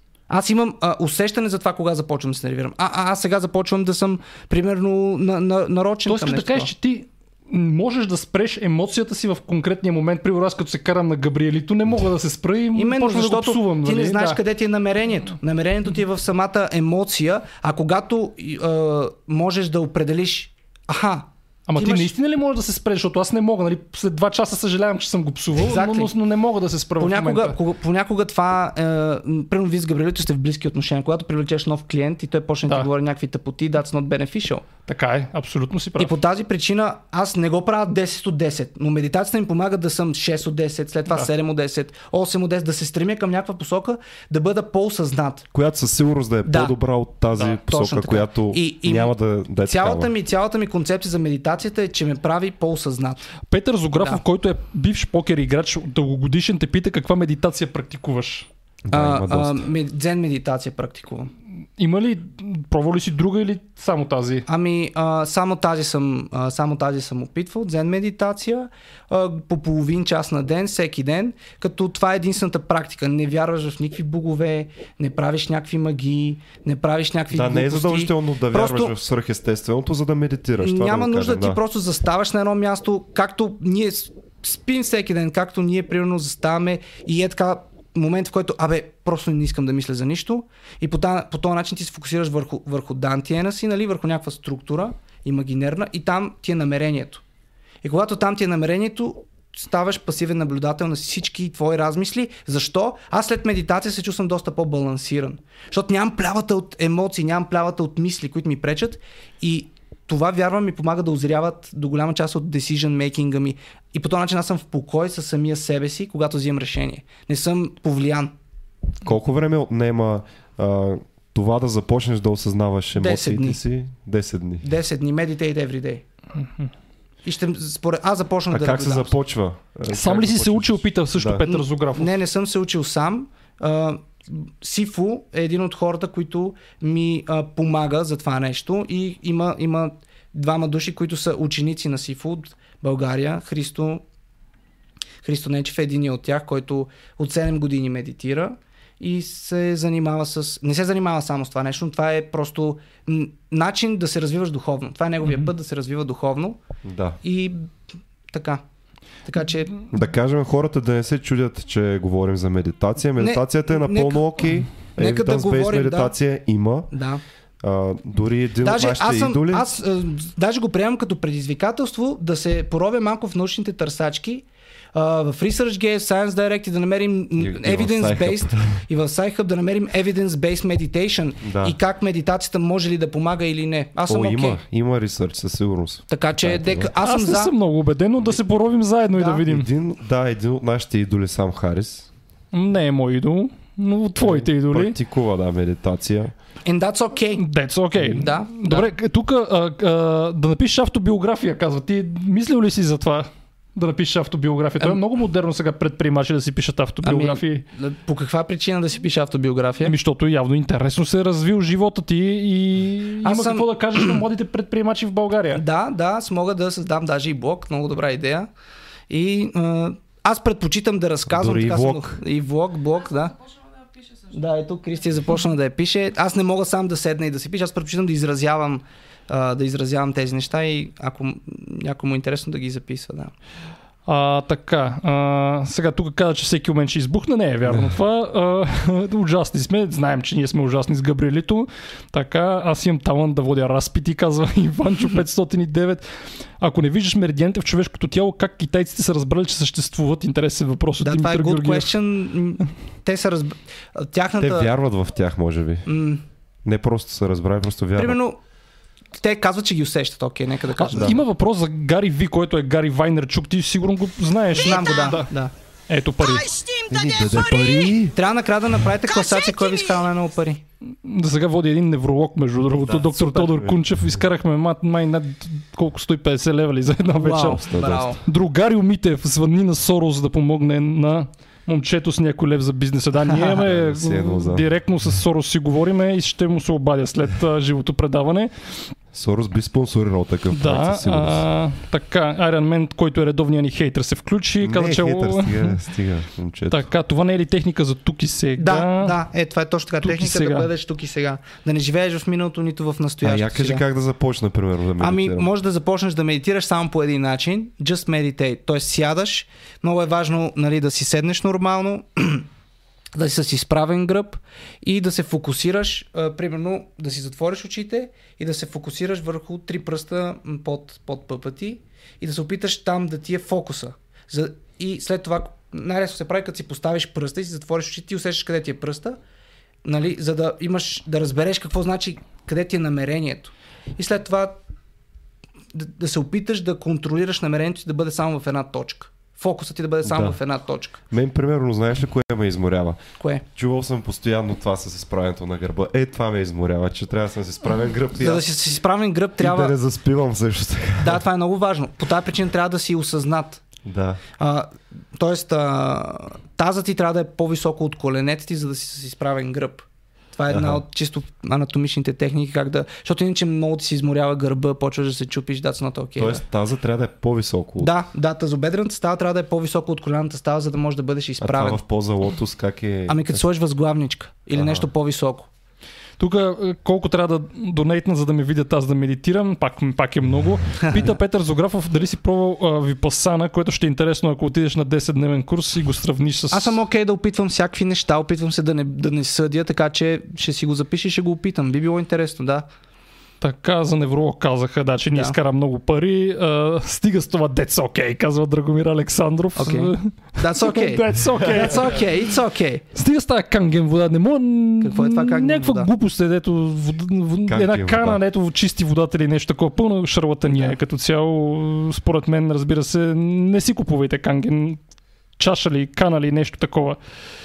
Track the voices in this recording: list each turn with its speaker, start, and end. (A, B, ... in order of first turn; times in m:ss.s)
0:00.3-0:06.7 A
0:06.0-0:14.4 B
0:12.7-0:22.1 A
0:21.7-0:27.6 B
0:25.6-0:26.1 A
0:27.0-0:34.6 A
0:34.8-0:36.1 B
0:36.0-0:45.5 A
0:45.5-0:50.1 C
0:46.4-0:46.8 A
0:47.6-0:49.1 A
0:49.6-0:53.3 A
0:53.5-0:58.5 B
0:58.9-0:59.7 C
0:58.9-1:01.3 A
1:01.8-1:04.4 B
1:04.5-1:18.9 A
1:17.3-1:21.6 C
1:20.6-1:37.2 A
1:37.8-1:58.3 A
1:59.0-2:04.6 C
2:03.0-2:03.6 A
2:04.6-2:06.0 A
2:06.4-2:06.7 B
2:07.2-2:09.1 A
2:08.5-2:11.4 C
2:09.9-2:12.1 B
2:11.5-2:24.0 A
2:25.2-2:36.6 A
2:36.8-2:37.2 C
2:37.2-2:37.7 A
2:38.3-2:38.6 A
2:39.2-2:39.8 A
2:39.9-2:46.9 C
2:43.2-2:46.1 A
2:46.9-2:47.2 A
2:47.6-2:49.7 C
2:48.6-3:04.6 A
2:57.4-2:58.8 C
3:01.4-3:01.8 C
3:04.1-3:06.9 C
3:06.1-3:07.5 A
3:07.0-3:09.7 B
3:09.1-3:09.4 A
3:09.5-3:12.1 C
3:12.5-3:15.0 B
3:14.2-3:16.3 C
3:16.6-3:17.4 A
3:17.4-3:27.6 B
3:17.9-3:18.2 C
3:18.2-3:18.8 A
3:27.0-3:29.9 A
3:29.8-3:35.6 B
3:33.2-3:34.2 A
3:35.5-3:38.5 A
3:39.1-3:43.4 A
3:41.3-3:42.2 C
3:44.3-3:53.3 A
3:54.0-4:06.0 B
3:57.7-3:57.9 C
4:06.6-4:12.0 B
4:11.0-4:14.7 A
4:14.4-4:15.9 C
4:15.8-4:16.2 A
4:16.6-4:18.2 C
4:18.0-4:18.4 A
4:19.1-4:21.2 A
4:20.8-4:25.3 B
4:20.9-4:21.2 C
4:24.5-4:25.5 A
4:24.6-4:25.2 D
4:25.9-4:26.4 B
4:26.2-4:28.1 D
4:26.9-4:28.2 C
4:28.1-4:30.6 A
4:29.0-4:30.1 D
4:30.8-4:48.7 B
4:32.8-4:33.5 A
4:33.5-4:33.8 C
4:37.1-4:38.2 A
4:37.6-4:38.2 C
4:43.5-4:44.7 C
4:49.1-4:51.4 C
4:50.5-4:55.8 B
4:54.6-4:56.9 C
4:56.7-4:59.2 B
4:58.6-5:03.8 A
5:00.0-5:00.7 B
5:03.2-5:05.5 C
5:05.0-5:12.5 A
5:13.1-5:29.2 A
5:29.8-5:34.6 A
5:35.7-5:41.0 A
5:40.0-5:40.4 C
5:41.1-5:48.4 C
5:48.2-5:49.7 A
5:49.4-5:51.2 C
5:51.0-5:53.6 A
5:53.8-5:54.2 C
5:54.4-6:06.4 A
6:00.5-6:00.8 C
6:06.2-6:07.9 C
6:07.8-6:11.8 A
6:11.4-6:13.4 C
6:13.1-6:15.5 A
6:14.5-6:14.9 C
6:16.2-6:26.8 B
6:26.5-6:32.7 A
6:33.4-6:42.0 B
6:39.6-6:42.8 A
6:42.9-6:54.8 B
6:44.8-6:45.9 A
6:47.5-6:48.2 C
6:50.5-6:50.8 A
6:55.4-6:57.0 B